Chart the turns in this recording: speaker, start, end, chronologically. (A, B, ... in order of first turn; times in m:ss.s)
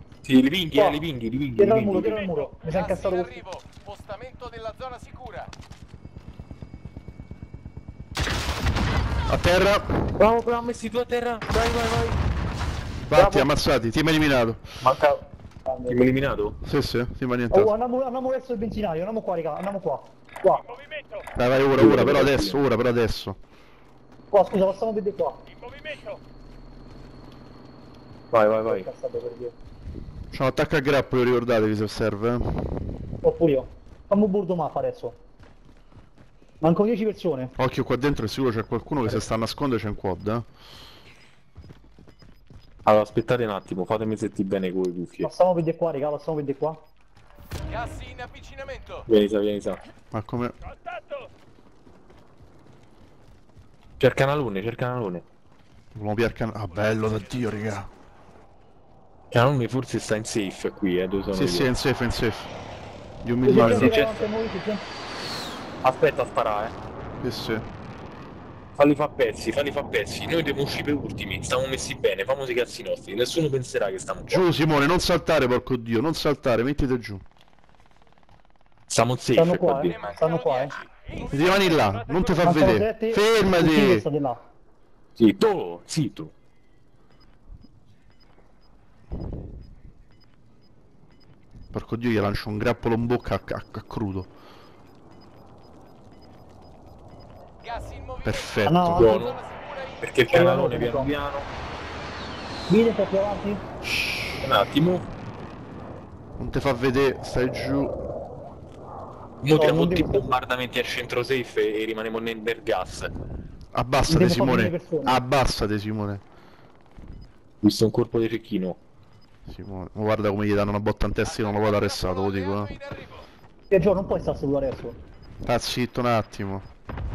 0:00.2-0:02.2 A
0:00.7-0:01.0 B
0:01.6-0:03.4 B
0:02.6-0:05.5 C
0:09.3-0:10.1 D
0:10.2-0:12.2 A
0:13.1-0:14.6 D
0:13.1-0:13.5 B
0:14.8-0:15.2 A
0:15.6-0:16.1 B
0:15.8-0:16.5 A
0:16.6-0:17.7 D
0:17.5-0:20.8 B
0:21.4-0:23.4 D
0:21.7-0:22.6 A
0:24.3-0:25.4 B
0:25.7-0:26.1 C
0:28.3-0:28.9 A
0:28.6-0:29.5 B
0:30.3-0:33.0 D
0:33.2-0:35.2 B
0:36.6-0:37.5 B
0:37.6-0:40.4 D
0:42.8-0:45.3 A
0:45.2-0:46.8 B
0:47.7-0:49.0 C
0:49.1-0:49.8 A
0:50.1-0:50.5 D
0:54.0-0:55.2 A
0:55.9-0:57.9 D
0:59.3-1:01.7 A
1:01.3-1:02.5 D
1:03.2-1:03.9 D
1:03.4-1:04.8 B
1:03.5-1:04.2 A
1:05.8-1:06.7 A
1:07.2-1:07.6 D
1:08.8-1:14.4 A
1:14.3-1:17.2 D
1:18.9-1:20.2 A
1:19.3-1:20.8 B
1:20.0-1:22.3 C
1:21.3-1:24.0 D
1:22.4-1:24.4 B
1:25.2-1:26.3 A
1:31.7-1:34.3 D
1:37.6-1:38.6 C
1:38.2-1:39.2 D
1:38.6-1:39.2 B
1:39.0-1:39.4 A
1:39.2-1:40.2 C
1:40.0-1:41.5 A
1:40.3-1:41.1 B
1:42.7-1:43.6 B
1:43.8-1:44.5 D
1:44.4-1:45.1 A
1:46.4-1:47.9 D
1:49.4-1:53.1 A
1:49.5-1:50.3 B
1:53.7-1:56.2 D
1:54.1-1:55.2 B
1:57.6-1:58.8 A
1:59.4-2:02.7 D
2:01.2-2:03.3 C
2:03.7-2:05.0 B
2:05.4-2:06.6 D